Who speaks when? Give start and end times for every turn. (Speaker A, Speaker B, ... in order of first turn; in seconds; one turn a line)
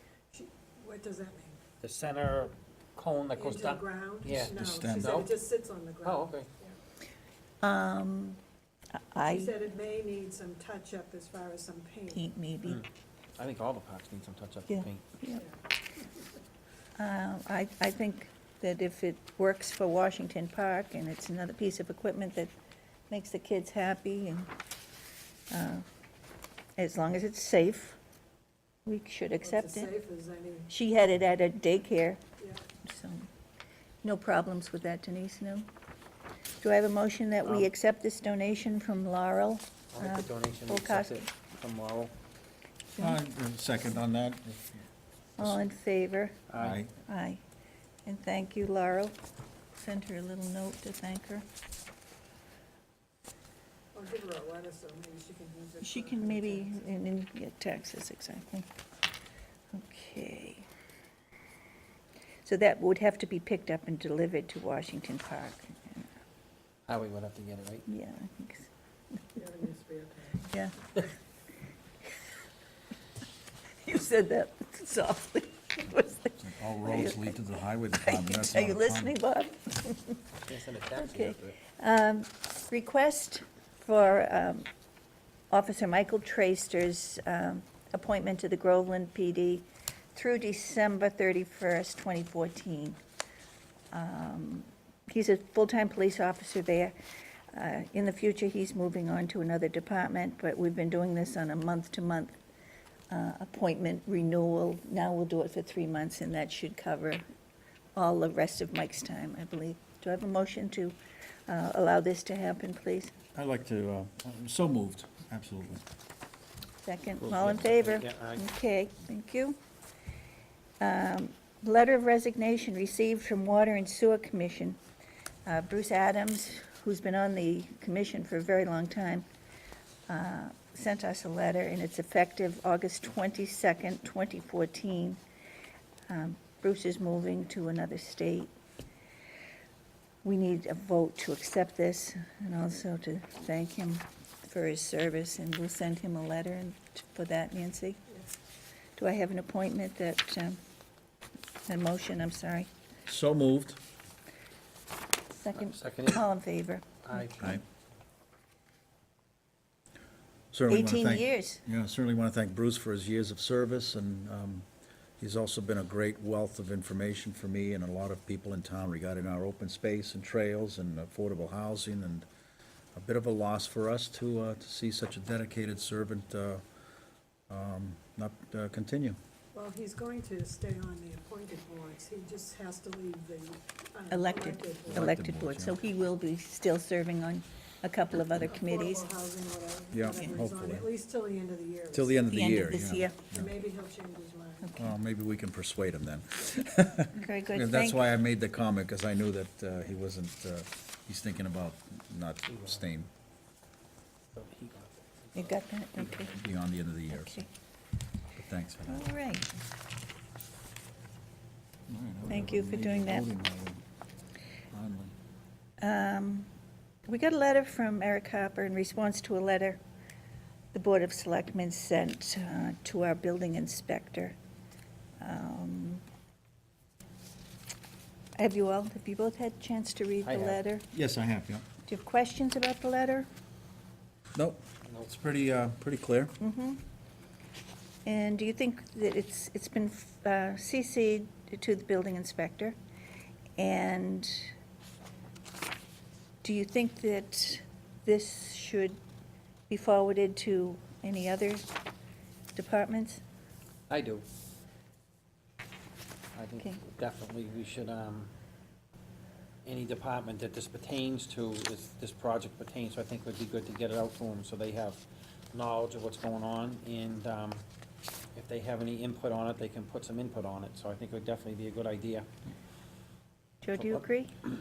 Speaker A: 0.3-1.6
Speaker B: 1.8-5.3
Speaker A: 3.4-6.8
Speaker C: 4.6-5.2
Speaker B: 6.0-6.5
Speaker D: 7.6-8.4
Speaker D: 9.0-9.6
Speaker A: 9.2-12.3
Speaker D: 12.1-12.8
Speaker B: 12.7-15.0
Speaker D: 14.7-15.4
Speaker D: 17.0-22.5
Speaker D: 23.1-24.5
Speaker D: 25.5-25.9
Speaker D: 26.8-28.0
Speaker D: 28.9-29.9
Speaker A: 29.4-30.7
Speaker D: 30.7-32.2
Speaker A: 32.4-32.6
Speaker D: 32.8-33.3
Speaker D: 34.0-35.7
Speaker D: 36.6-41.3
Speaker B: 39.9-42.1
Speaker D: 42.9-43.2
Speaker C: 43.0-44.7
Speaker D: 45.4-46.4
Speaker B: 46.5-46.8
Speaker C: 46.6-46.9
Speaker D: 47.1-47.4
Speaker D: 48.0-49.1
Speaker D: 49.8-51.5
Speaker A: 53.9-56.8
Speaker D: 55.8-58.7
Speaker D: 59.7-60.7
Speaker D: 62.5-66.1
Speaker B: 66.9-67.9
Speaker D: 67.9-68.7
Speaker A: 69.3-70.5
Speaker D: 73.8-77.2
Speaker C: 76.3-79.2
Speaker D: 78.0-80.3
Speaker B: 80.5-81.6
Speaker D: 81.0-84.7
Speaker D: 85.5-93.0
Speaker D: 93.9-97.0
Speaker D: 97.5-102.4
Speaker D: 103.1-107.2
Speaker D: 108.0-111.0
Speaker D: 111.5-113.1
Speaker C: 113.3-115.8
Speaker D: 116.8-119.6
Speaker B: 117.2-118.5
Speaker D: 120.8-124.8
Speaker D: 125.5-129.3
Speaker D: 130.1-135.2
Speaker D: 136.1-138.5
Speaker D: 140.2-148.0
Speaker D: 149.0-150.6
Speaker D: 151.7-152.7
Speaker C: 153.1-153.8
Speaker D: 155.3-157.6
Speaker B: 155.6-156.3
Speaker B: 157.0-157.6
Speaker C: 160.5-164.7
Speaker D: 160.7-161.6
Speaker C: 165.2-172.3
Speaker C: 172.9-176.6
Speaker C: 177.5-179.2
Speaker A: 179.5-185.1
Speaker D: 184.1-189.1
Speaker C: 184.9-185.8
Speaker A: 188.4-192.2
Speaker C: 189.9-190.9
Speaker C: 191.9-193.5
Speaker D: 192.3-193.2
Speaker A: 193.3-194.8
Speaker D: 194.6-194.9
Speaker C: 194.8-203.1
Speaker D: 197.2-198.0
Speaker B: 202.5-202.8
Speaker B: 204.3-206.3
Speaker D: 205.3-206.3
Speaker C: 206.2-207.5
Speaker D: 207.1-207.5
Speaker C: 208.3-209.1
Speaker D: 208.9-209.5
Speaker C: 211.9-213.8
Speaker D: 212.3-213.3
Speaker C: 214.7-215.1
Speaker D: 215.8-216.5
Speaker D: 217.1-219.8
Speaker D: 220.7-224.3
Speaker D: 225.2-226.0
Speaker D: 228.4-230.9
Speaker B: 230.2-230.6
Speaker C: 230.9-231.7
Speaker D: 231.8-233.3
Speaker C: 234.3-236.3
Speaker D: 236.4-236.8
Speaker D: 238.1-242.8
Speaker D: 243.6-244.5
Speaker D: 246.4-249.0
Speaker D: 249.7-251.7
Speaker D: 252.6-253.2
Speaker B: 253.9-254.2
Speaker B: 256.4-258.3
Speaker B: 259.6-265.0
Speaker B: 265.5-267.6
Speaker B: 268.3-272.3
Speaker D: 273.6-274.3